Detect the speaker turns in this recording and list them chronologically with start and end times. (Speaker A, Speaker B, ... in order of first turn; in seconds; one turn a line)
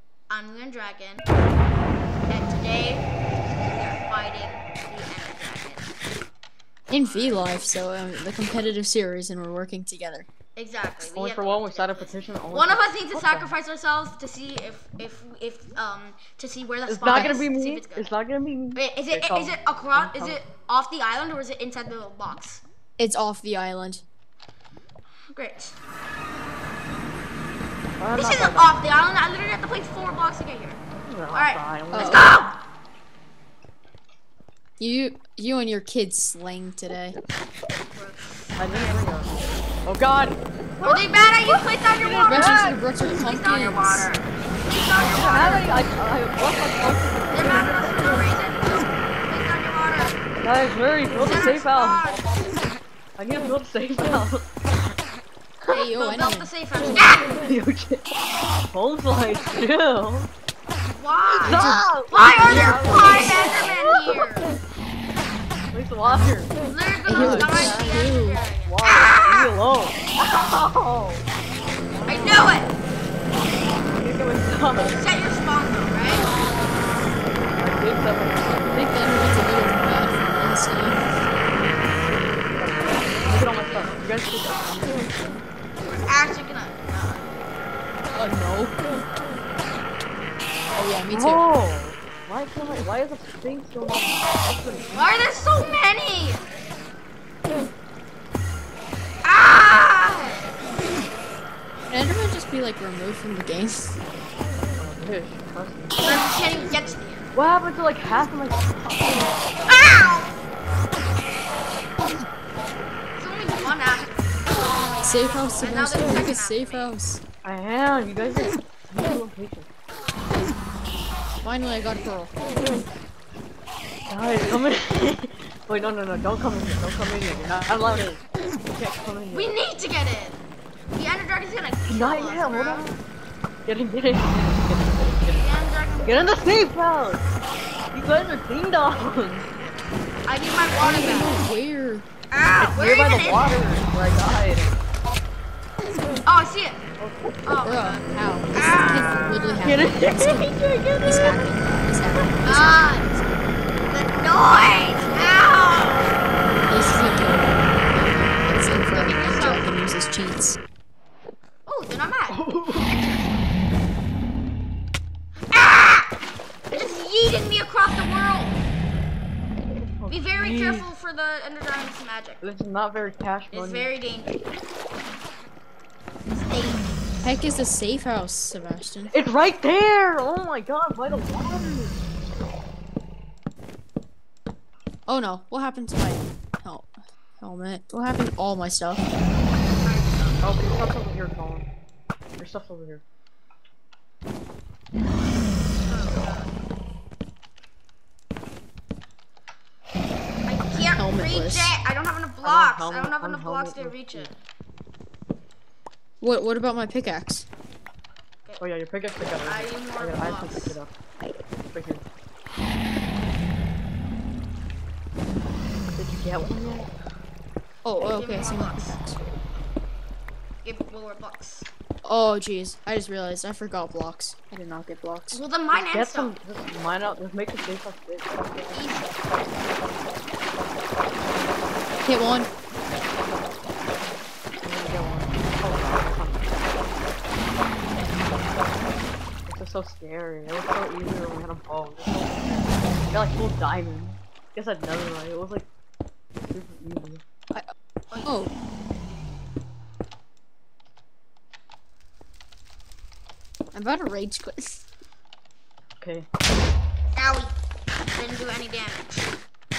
Speaker A: 0.3-1.3
Speaker A: 2.3-5.9
Speaker B: 6.9-10.3
Speaker A: 7.0-7.5
Speaker A: 10.6-18.1
Speaker C: 11.0-13.5
Speaker C: 16.9-20.4
Speaker B: 17.1-17.5
Speaker A: 18.7-22.6
Speaker B: 23.0-24.0
Speaker A: 25.3-25.8
Speaker C: 28.0-28.8
Speaker A: 28.1-32.5
Speaker C: 30.9-32.3
Speaker B: 31.9-32.4
Speaker B: 34.8-37.1
Speaker A: 37.9-39.2
Speaker C: 38.6-42.6
Speaker A: 40.8-45.9
Speaker B: 42.3-44.1
Speaker C: 45.0-48.3
Speaker A: 47.3-50.2
Speaker C: 50.4-52.0
Speaker A: 51.2-52.3
Speaker C: 53.2-54.5
Speaker B: 55.7-56.5
Speaker A: 55.7-57.4
Speaker C: 57.2-58.0
Speaker C: 58.7-60.3
Speaker A: 60.9-64.5
Speaker B: 61.4-63.4
Speaker C: 61.4-64.2
Speaker C: 65.7-66.5
Speaker B: 66.0-66.3
Speaker A: 66.6-69.5
Speaker B: 67.1-68.4
Speaker C: 67.1-71.2
Speaker C: 72.0-72.6
Speaker A: 72.0-72.7
Speaker C: 73.8-75.0
Speaker A: 74.9-76.3
Speaker C: 77.6-78.8
Speaker B: 78.7-81.0
Speaker C: 82.5-85.4
Speaker A: 83.2-84.0
Speaker A: 85.8-87.4
Speaker B: 88.1-88.8
Speaker B: 90.8-91.4
Speaker C: 91.1-95.1
Speaker A: 94.9-96.5
Speaker A: 99.2-100.6
Speaker B: 101.9-104.0
Speaker C: 104.5-109.7
Speaker A: 106.0-107.3
Speaker A: 109.7-110.3
Speaker A: 113.2-116.9
Speaker B: 115.0-117.2
Speaker C: 117.4-119.7
Speaker B: 121.4-122.4
Speaker C: 124.1-129.6
Speaker A: 129.3-130.4
Speaker A: 130.9-133.0
Speaker C: 131.9-133.0
Speaker C: 133.7-137.2
Speaker A: 135.3-136.4
Speaker C: 137.9-139.4
Speaker A: 139.4-141.4
Speaker B: 140.8-142.1
Speaker A: 142.3-143.6
Speaker C: 142.6-144.8
Speaker A: 146.2-146.8
Speaker C: 147.0-147.2
Speaker A: 147.4-149.7
Speaker B: 147.6-150.5
Speaker C: 149.6-151.6
Speaker B: 151.0-152.9
Speaker A: 152.4-156.1
Speaker B: 156.7-160.6
Speaker A: 156.7-157.2
Speaker A: 158.9-159.7
Speaker A: 161.7-163.5
Speaker C: 162.3-162.9
Speaker A: 165.5-166.1
Speaker A: 166.7-168.7
Speaker C: 170.0-170.9
Speaker A: 170.1-172.4
Speaker C: 172.4-173.9
Speaker A: 173.5-174.4
Speaker A: 176.3-177.1
Speaker B: 177.2-179.1
Speaker C: 179.1-182.0
Speaker B: 185.1-189.1
Speaker A: 189.8-190.6
Speaker C: 190.4-191.7
Speaker C: 192.4-193.0
Speaker A: 195.8-196.5
Speaker A: 200.4-204.3
Speaker B: 200.9-201.7
Speaker C: 202.4-204.3
Speaker B: 206.2-207.4
Speaker C: 208.6-210.9
Speaker A: 209.4-210.8
Speaker C: 211.7-212.0
Speaker C: 215.9-216.9
Speaker B: 217.8-219.2
Speaker A: 218.0-219.0
Speaker A: 220.6-221.7
Speaker B: 222.0-225.4
Speaker A: 225.3-226.3
Speaker C: 225.7-229.0
Speaker A: 228.7-229.2
Speaker B: 232.0-232.5
Speaker C: 234.6-236.7
Speaker C: 238.1-238.7
Speaker C: 239.5-245.7
Speaker C: 246.4-247.2
Speaker A: 248.1-248.4
Speaker B: 248.2-248.5
Speaker B: 253.7-254.8
Speaker C: 256.0-256.3
Speaker A: 257.1-257.5
Speaker A: 258.1-259.3